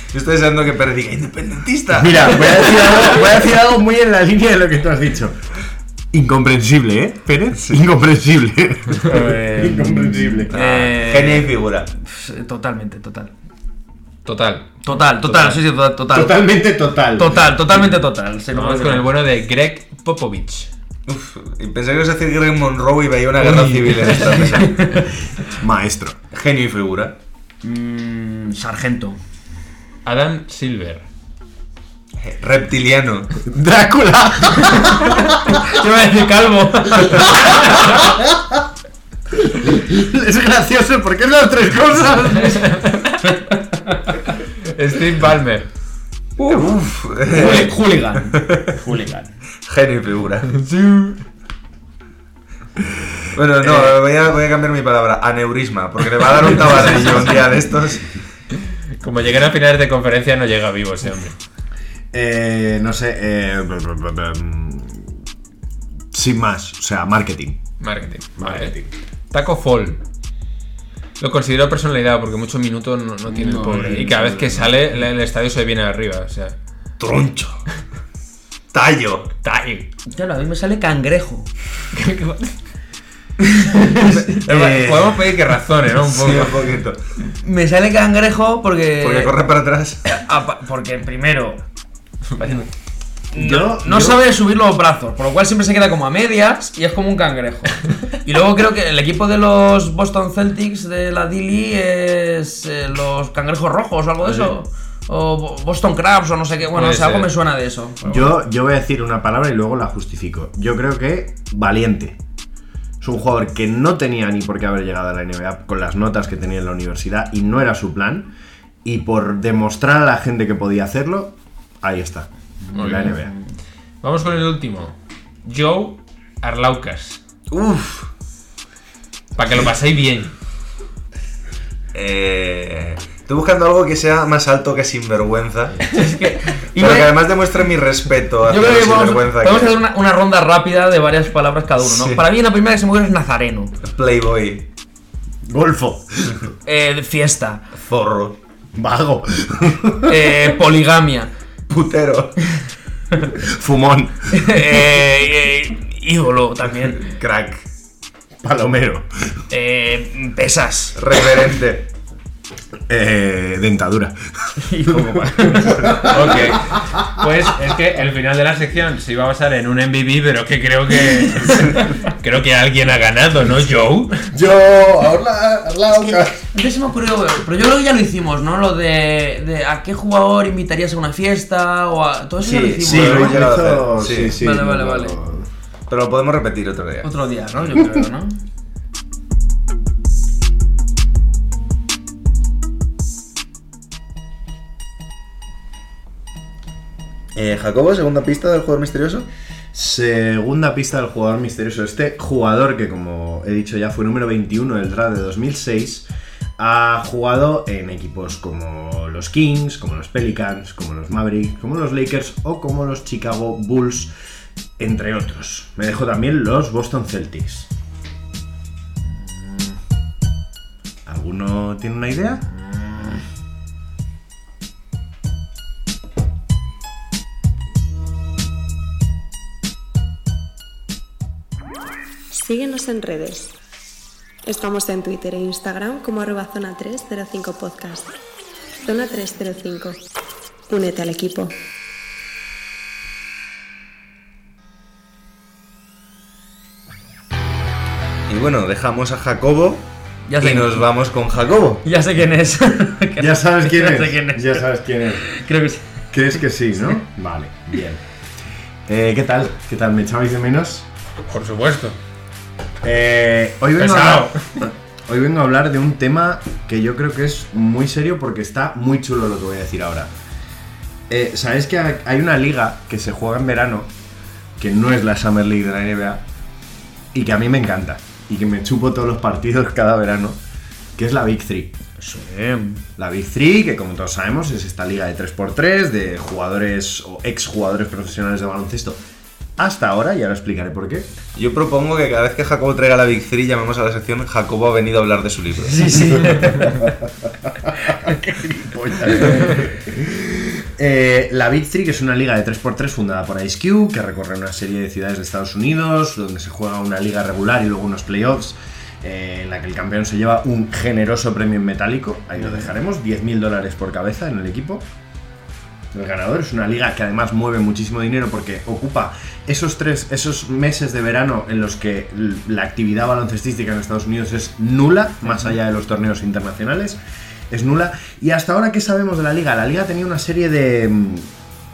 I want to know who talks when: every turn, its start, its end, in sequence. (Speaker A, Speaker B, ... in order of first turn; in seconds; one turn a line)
Speaker A: 0.1-2.8
Speaker B: 1.9-5.4
Speaker B: 6.1-10.9
Speaker C: 9.0-13.3
Speaker A: 10.6-11.9
Speaker D: 14.2-15.5
Speaker C: 14.8-16.4
Speaker B: 16.1-17.9
Speaker C: 17.1-19.0
Speaker D: 18.5-20.7
Speaker A: 21.1-25.1
Speaker C: 23.4-25.1
Speaker B: 25.5-26.2
Speaker A: 26.3-27.1
Speaker C: 27.6-29.2
Speaker D: 30.0-31.0
Speaker A: 32.2-33.3
Speaker B: 33.4-35.4
Speaker C: 35.5-37.8
Speaker B: 37.4-38.6
Speaker B: 39.3-42.8
Speaker C: 43.5-44.1
Speaker D: 44.6-45.7
Speaker C: 46.4-46.7
Speaker A: 46.5-47.8
Speaker C: 47.2-49.3
Speaker A: 48.3-48.7
Speaker A: 49.7-50.5
Speaker D: 50.6-51.2
Speaker A: 53.3-58.2
Speaker D: 59.0-61.4
Speaker B: 62.1-65.2
Speaker B: 66.1-67.6
Speaker D: 67.8-68.8
Speaker B: 68.4-68.9
Speaker D: 69.3-70.0
Speaker D: 71.2-76.5
Speaker C: 73.3-74.7
Speaker B: 73.7-74.0
Speaker A: 77.0-77.6
Speaker A: 78.7-79.3
Speaker D: 79.4-79.9
Speaker C: 80.1-81.5
Speaker D: 81.9-82.5
Speaker C: 83.4-84.4
Speaker D: 84.1-86.6
Speaker A: 84.5-84.9
Speaker A: 86.0-87.0
Speaker C: 87.4-89.3
Speaker A: 89.0-90.0
Speaker C: 90.0-91.6
Speaker D: 92.3-92.7
Speaker C: 93.3-108.3
Speaker B: 93.3-94.2
Speaker A: 106.7-107.3
Speaker B: 108.0-112.2
Speaker B: 113.0-118.3
Speaker B: 118.8-123.3
Speaker C: 122.6-123.4
Speaker D: 122.8-123.1
Speaker D: 124.0-127.2
Speaker A: 127.5-128.1
Speaker D: 129.3-130.3
Speaker A: 131.9-135.9
Speaker C: 135.9-137.1
Speaker A: 136.8-139.8
Speaker C: 138.5-143.8
Speaker A: 141.8-142.2
Speaker A: 143.8-144.7
Speaker B: 145.4-146.4
Speaker C: 146.6-147.6
Speaker A: 147.8-148.4
Speaker B: 148.7-150.2
Speaker C: 150.0-151.3
Speaker A: 151.7-152.4
Speaker B: 153.3-154.4
Speaker C: 154.3-157.0
Speaker A: 157.0-157.6
Speaker B: 158.4-159.1
Speaker C: 159.5-161.0
Speaker A: 160.9-161.9
Speaker B: 162.9-164.1
Speaker C: 164.6-166.0
Speaker B: 164.9-167.0
Speaker D: 166.1-174.3
Speaker B: 174.3-176.5
Speaker C: 176.5-183.4
Speaker A: 182.4-184.3
Speaker B: 182.8-185.5
Speaker C: 184.4-185.2
Speaker A: 185.9-187.1
Speaker C: 187.0-188.4
Speaker A: 197.3-199.3
Speaker B: 199.7-206.1
Speaker B: 206.6-214.1
Speaker B: 214.8-217.7
Speaker B: 221.0-222.4
Speaker C: 222.8-223.2
Speaker E: 232.3-233.5
Speaker E: 234.4-238.2
Speaker E: 238.8-240.0
Speaker E: 240.7-241.6
Speaker A: 248.3-249.9
Speaker C: 250.3-250.8
Speaker A: 250.4-251.8
Speaker C: 251.8-255.9
Speaker B: 253.2-255.2
Speaker B: 256.1-258.0
Speaker B: 258.9-260.9
Speaker D: 261.3-262.0
Speaker B: 262.8-270.1
Speaker D: 263.8-264.7
Speaker B: 271.1-273.9
Speaker B: 274.6-276.2
Speaker B: 277.1-280.4
Speaker B: 280.9-281.7
Speaker C: 282.0-282.8
Speaker B: 283.0-289.0
Speaker B: 289.6-291.1
Speaker A: 291.3-296.3
Speaker C: 295.7-296.7
Speaker B: 296.5-296.9
Speaker B: 297.8-314.8
Speaker C: 312.4-312.6
Speaker B: 315.9-331.3